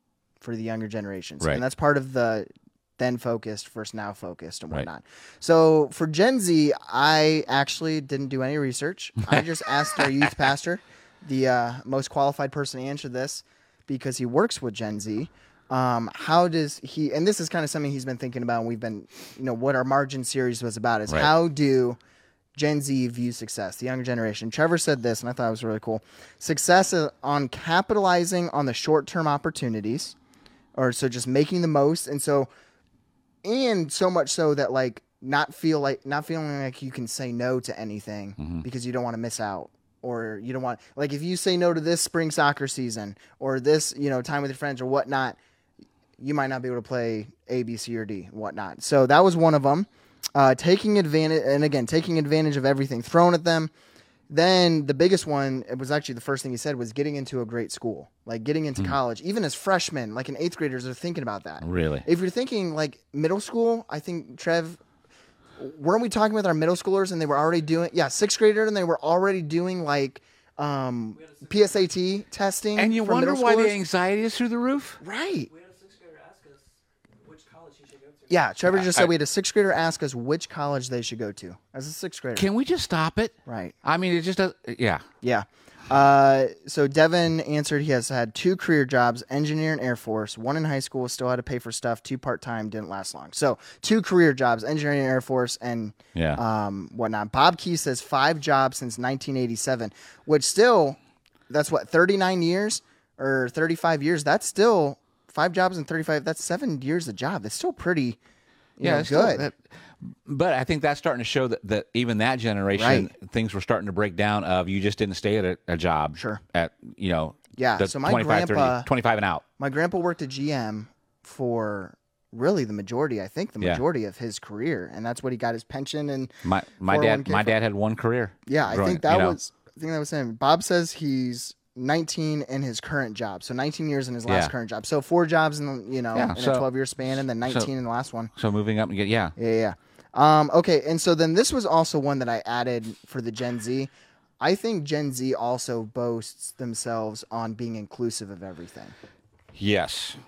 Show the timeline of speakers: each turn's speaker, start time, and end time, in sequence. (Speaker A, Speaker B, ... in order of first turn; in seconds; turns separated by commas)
Speaker A: 0.4-22.0, Speaker A: 22.6-30.1, Speaker A: 30.8-32.5, Speaker A: 33.4-45.4, Speaker B: 38.4-38.6, Speaker A: 46.2-53.7, Speaker A: 54.3-64.8, Speaker B: 61.6-62.1, Speaker A: 65.6-73.8, Speaker C: 71.2-71.5, Speaker B: 72.8-75.0, Speaker A: 75.0-75.5, Speaker C: 75.5-76.6, Speaker C: 77.2-78.4, Speaker A: 78.3-82.5, Speaker B: 78.7-79.1, Speaker B: 82.4-85.0, Speaker A: 83.5-83.8, Speaker A: 85.2-108.2, Speaker B: 96.2-96.4, Speaker A: 108.8-109.5, Speaker B: 108.8-119.4, Speaker A: 112.8-113.1, Speaker A: 116.2-116.4, Speaker A: 117.6-118.9, Speaker A: 119.6-127.5, Speaker B: 126.5-129.4, Speaker A: 128.5-138.3, Speaker B: 134.3-134.5, Speaker B: 136.1-136.7, Speaker B: 137.4-137.7, Speaker B: 138.3-139.3, Speaker A: 139.4-148.9, Speaker B: 149.6-150.2